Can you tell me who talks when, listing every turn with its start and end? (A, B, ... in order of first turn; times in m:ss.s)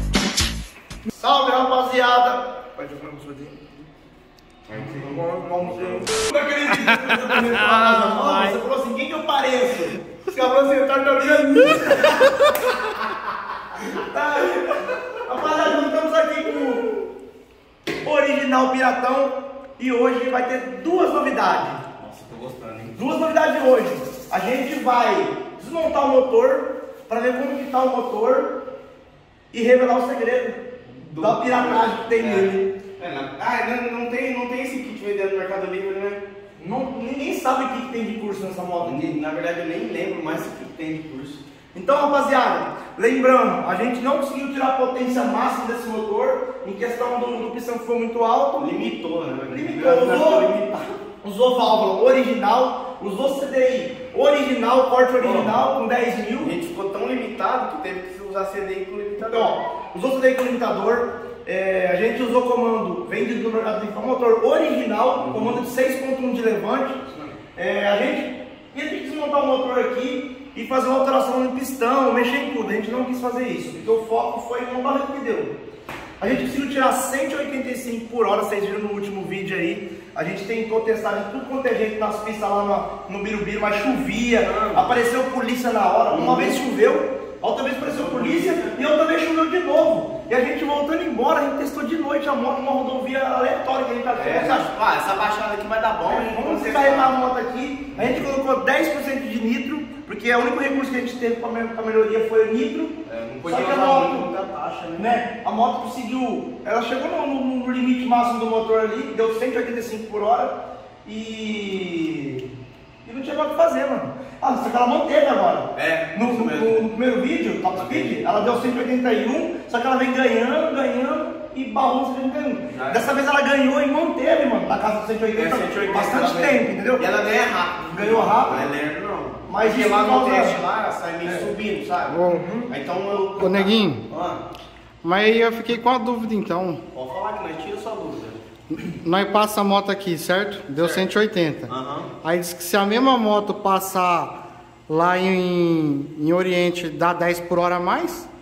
0:01.1-0:03.7 A
0:04.7-0:06.2 B
0:05.0-0:12.4 A
0:06.8-0:08.6 C
0:12.9-0:14.1 B
0:13.9-0:17.0 A
0:14.9-0:15.2 B
0:18.0-0:21.8 A
0:22.0-0:23.1 B
0:23.0-0:28.6 A
0:29.5-0:30.6 A
0:30.9-0:36.2 B
0:31.2-0:32.7 A
0:36.6-0:39.2 A
0:38.8-0:41.4 B
0:41.7-0:48.9 A
0:48.6-0:51.0 B
0:49.5-0:50.5 A
0:51.2-0:56.6 A
0:55.2-0:55.6 B
0:56.4-0:59.7 B
0:59.2-1:07.0 A
1:05.2-1:05.6 B
1:07.0-1:07.4 B
1:07.6-1:15.6 A
1:16.2-1:34.7 A
1:24.4-1:25.0 B
1:26.1-1:26.6 B
1:27.8-1:28.9 B
1:34.1-1:37.2 B
1:36.0-1:44.3 A
1:37.9-1:38.3 B
1:43.0-1:45.3 B
1:45.0-1:52.5 A
1:53.0-2:07.0 A
1:55.7-1:56.9 B
1:57.7-1:58.6 B
2:02.7-2:03.1 B
2:05.3-2:14.4 B
2:07.9-2:08.7 A
2:09.5-2:10.6 A
2:11.2-2:11.5 A
2:12.1-2:12.5 C
2:12.3-2:13.2 A
2:13.4-2:14.0 C
2:15.0-2:16.8 C
2:16.9-2:18.4 B
2:18.8-2:21.7 C
2:20.8-2:21.1 B
2:21.7-2:22.1 B
2:22.2-2:24.4 C
2:24.9-2:28.3 C